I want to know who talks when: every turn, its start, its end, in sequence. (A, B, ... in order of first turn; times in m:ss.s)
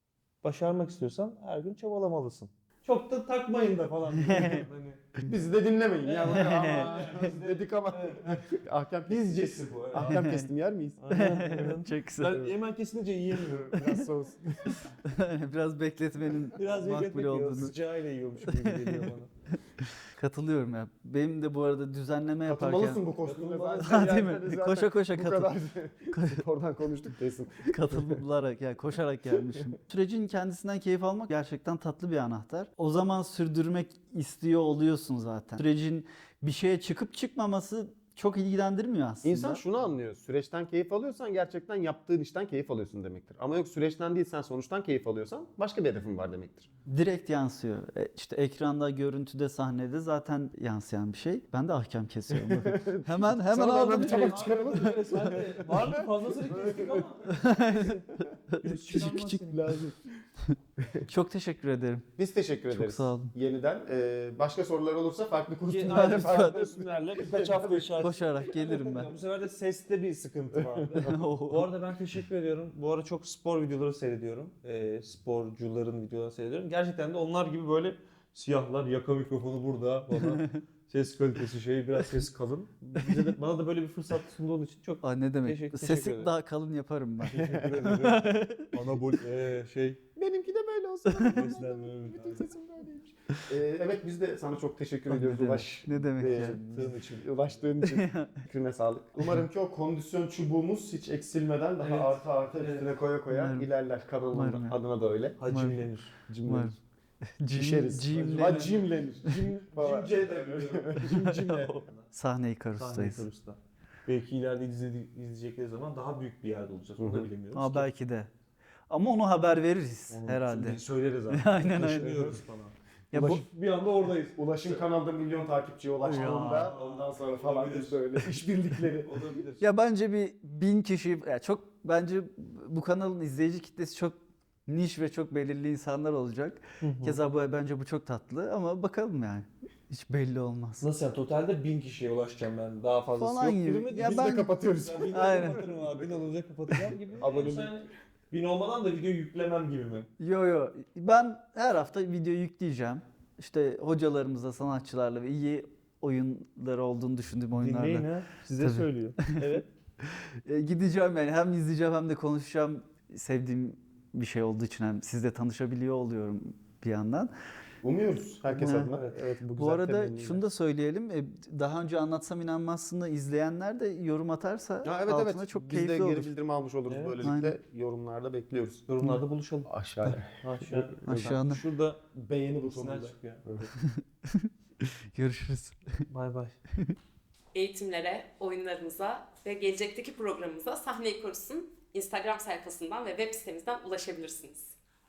0:00.4-0:05.0 A
0:04.2-0:04.6 B
0:05.3-0:11.7 C
0:06.0-0:08.4 A
0:06.3-0:06.9 B
0:09.1-0:10.2 A
0:10.0-0:10.5 B
0:11.0-0:14.1 A
0:11.1-0:12.5 B
0:13.4-0:14.7 C
0:15.0-0:17.7 B
0:16.5-0:19.3 A
0:18.5-0:19.1 B
0:19.8-0:23.0 B
0:22.4-0:28.2 C
0:23.2-0:24.3 A
0:23.8-0:25.6 B
0:26.1-0:26.4 B
0:27.7-0:39.6 B
0:39.2-0:46.7 C
0:46.9-0:55.8 B
0:52.5-0:57.1 C
0:53.5-0:58.0 A
0:57.3-0:59.8 B
0:58.6-0:59.8 A
0:59.5-1:00.0 C
1:00.8-1:01.1 C
1:01.0-1:02.1 B
1:02.2-1:07.9 C
1:02.7-1:03.3 B
1:05.6-1:26.3 A
1:05.9-1:06.7 B
1:08.0-1:09.1 B
1:10.6-1:10.9 C
1:11.0-1:11.7 B
1:20.3-1:20.6 B
1:25.0-1:28.7 B
1:27.3-1:30.1 A
1:27.4-1:27.7 C
1:30.1-1:45.4 C
1:31.1-1:31.4 B
1:31.2-1:32.5 A
1:35.1-1:36.6 B
1:36.1-1:37.4 A
1:37.8-1:38.4 B
1:41.8-1:42.9 A
1:43.3-1:43.7 B
1:44.3-1:44.8 B
1:45.4-1:46.6 A
1:45.5-1:45.8 B
1:46.3-1:46.7 C
1:46.4-1:46.8 B
1:47.4-1:48.8 B
1:47.5-1:51.2 C
1:48.1-1:52.1 A
1:51.0-1:53.2 B
1:52.8-1:57.9 A
1:57.0-1:57.3 C
1:57.5-1:58.3 B
1:58.9-2:02.4 B
2:00.1-2:04.8 A
2:03.1-2:03.4 B
2:04.4-2:09.3 C
2:06.0-2:08.0 A
2:09.0-2:09.6 A
2:09.6-2:20.9 B
2:16.8-2:17.2 A
2:20.8-2:30.1 A
2:23.2-2:24.5 B
2:23.8-2:26.1 C
2:25.1-2:25.6 B
2:27.2-2:27.7 C
2:30.2-2:38.1 B
2:37.5-2:39.7 A
2:38.6-2:39.4 B
2:40.0-2:47.3 B
2:47.8-2:50.4 C
2:48.5-2:49.2 A
2:48.6-2:48.9 B
2:49.6-2:56.3 B
2:54.8-2:58.8 C
2:56.9-2:57.2 A
2:57.2-2:57.5 B
2:58.9-2:59.7 A
2:59.7-3:01.2 C
3:00.3-3:02.0 A
3:01.0-3:01.6 B
3:02.1-3:03.7 C
3:02.7-3:03.4 A
3:03.8-3:05.9 B
3:06.1-3:06.6 A
3:07.5-3:14.8 D